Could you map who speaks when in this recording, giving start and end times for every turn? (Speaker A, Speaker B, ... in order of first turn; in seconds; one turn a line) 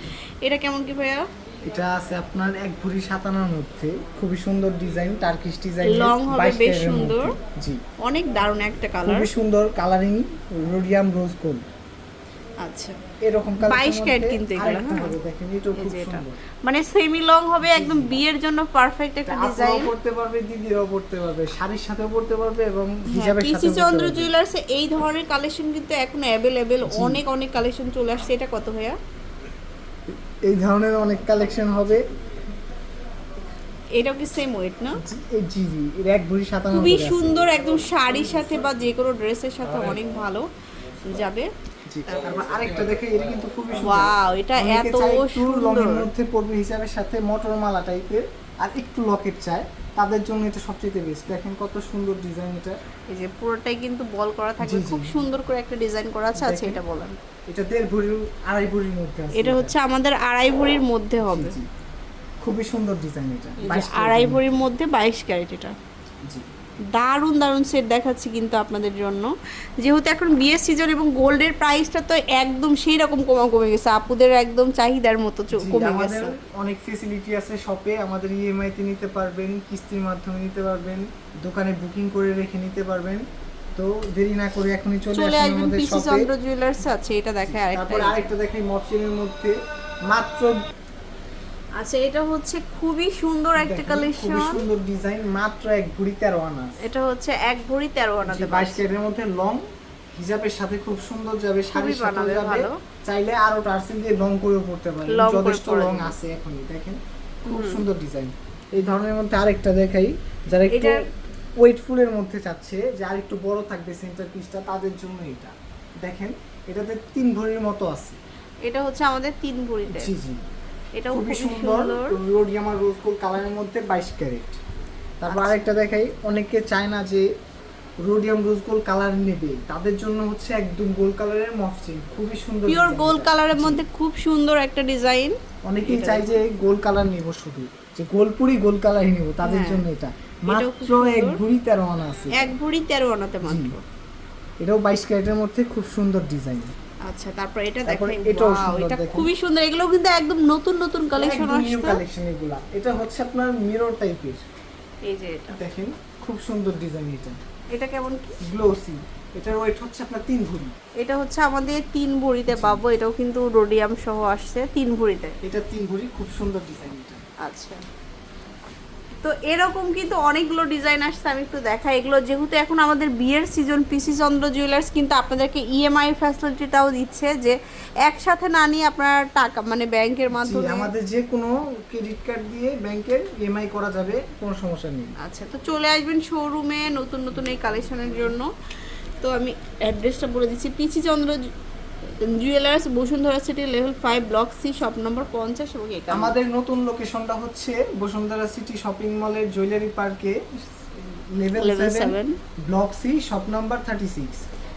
Speaker A: 0.4-1.2
Speaker B: 1.6-7.8
Speaker A: 5.8-7.3
Speaker A: 8.0-9.3
Speaker B: 9.0-11.6
Speaker A: 12.6-13.0
Speaker B: 13.2-16.4
Speaker A: 13.6-15.1
Speaker A: 15.8-19.9
Speaker B: 17.6-18.2
Speaker B: 19.2-24.3
Speaker A: 23.1-29.0
Speaker B: 26.9-27.2
Speaker B: 30.5-32.0
Speaker A: 34.0-35.0
Speaker B: 35.0-37.5
Speaker A: 36.7-40.5
Speaker A: 41.0-41.5
Speaker B: 41.9-52.8
Speaker A: 43.8-46.1
Speaker A: 53.1-57.2
Speaker B: 54.6-55.2
Speaker B: 56.4-56.8
Speaker B: 57.5-59.7
Speaker A: 59.4-61.5
Speaker B: 61.2-61.7
Speaker B: 62.4-64.6
Speaker A: 63.6-65.7
Speaker A: 66.9-76.3
Speaker B: 75.5-83.2
Speaker B: 83.8-86.3
Speaker A: 85.1-88.3
Speaker B: 87.4-89.5
Speaker B: 90.1-90.6
Speaker A: 91.8-94.6
Speaker B: 93.5-96.8
Speaker A: 96.8-98.8
Speaker B: 98.2-99.6
Speaker B: 100.1-111.0
Speaker A: 101.7-102.8
Speaker A: 105.1-106.2
Speaker A: 107.5-107.8
Speaker A: 110.7-111.0
Speaker B: 111.6-118.2
Speaker A: 118.6-120.1
Speaker B: 119.9-120.4
Speaker A: 121.0-122.2
Speaker B: 121.1-124.6
Speaker B: 125.2-127.2
Speaker A: 125.3-125.6
Speaker B: 128.0-133.8
Speaker A: 132.7-136.4
Speaker B: 135.7-142.5
Speaker A: 139.4-139.8
Speaker A: 140.5-141.4
Speaker A: 142.3-143.8
Speaker B: 143.4-143.7
Speaker B: 144.6-146.7
Speaker A: 147.1-152.0
Speaker B: 147.9-149.3
Speaker B: 151.2-154.4
Speaker A: 155.0-155.6
Speaker B: 155.5-157.4
Speaker A: 157.7-158.4
Speaker B: 158.4-160.7
Speaker A: 161.0-165.4
Speaker B: 162.5-162.8
Speaker B: 165.4-167.2
Speaker A: 167.4-167.8
Speaker A: 169.2-180.9
Speaker B: 180.3-185.1
Speaker A: 185.2-188.5
Speaker A: 189.2-191.4
Speaker A: 192.2-196.3
Speaker B: 196.1-202.2
Speaker A: 201.6-202.3
Speaker B: 202.7-204.4